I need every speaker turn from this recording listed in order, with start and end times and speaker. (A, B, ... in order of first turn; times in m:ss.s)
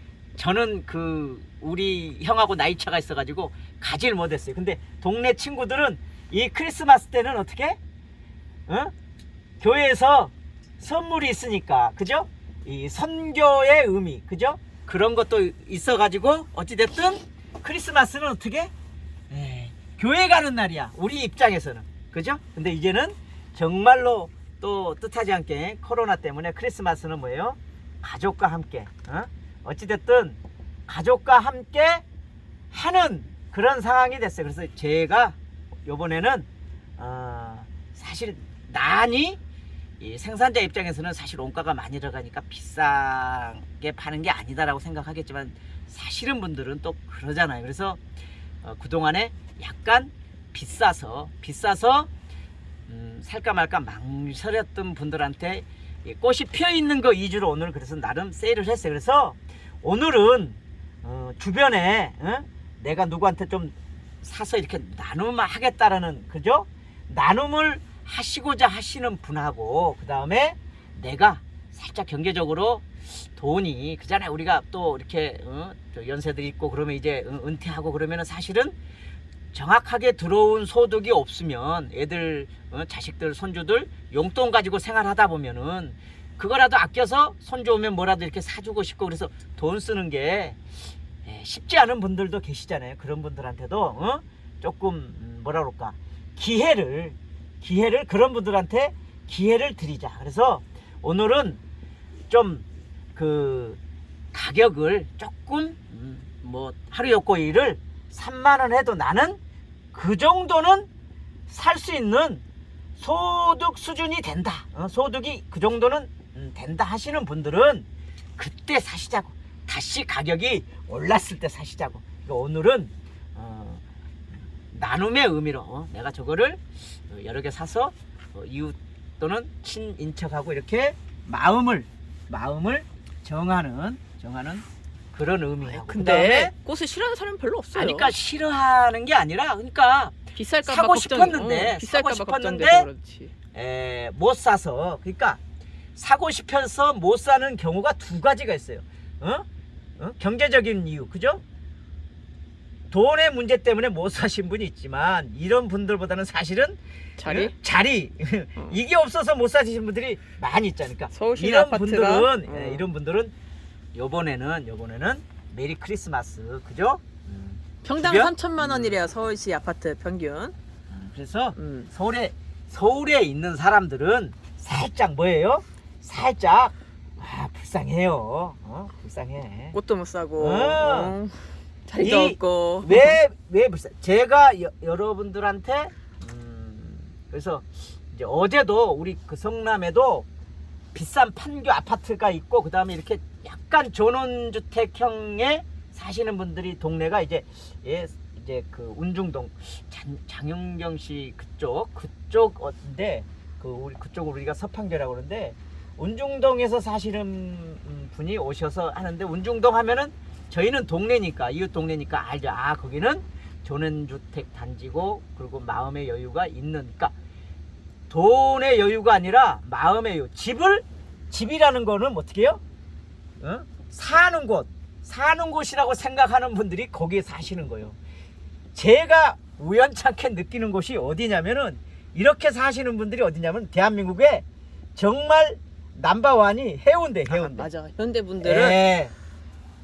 0:00.4-0:07.8 A
0:08.7-0:08.9 A
0:09.6-0:18.7 A
0:19.3-0:32.0 A
0:32.7-0:36.5 A
0:37.0-0:39.4 A
0:40.0-0:48.0 A
0:48.6-0:52.1 A
0:52.9-1:18.8 A
1:19.5-1:30.6 A
1:31.2-1:41.6 A
1:42.3-1:43.8 A
1:44.3-1:49.4 A
1:49.9-1:50.9 A
1:51.5-1:52.4 A
1:53.0-2:03.8 A
2:04.7-2:16.5 A
2:15.6-2:18.1 B
2:17.7-2:22.9 A
2:20.4-2:23.3 B
2:23.5-2:25.4 A
2:26.0-2:29.5 A
2:30.0-2:31.4 A
2:32.9-2:43.3 A
2:37.2-2:37.5 B
2:41.1-2:42.8 B
2:44.0-2:49.0 A
2:47.8-2:50.6 B
2:50.9-2:59.8 A
2:51.6-2:51.9 B
2:59.7-3:03.2 B
3:00.4-3:01.2 A
3:02.0-3:10.3 A
3:10.9-3:37.1 A
3:38.1-3:42.6 A
3:43.4-3:48.0 A
3:48.8-3:54.4 A
3:55.0-3:57.7 A
3:57.3-3:58.8 B
3:58.4-3:59.1 A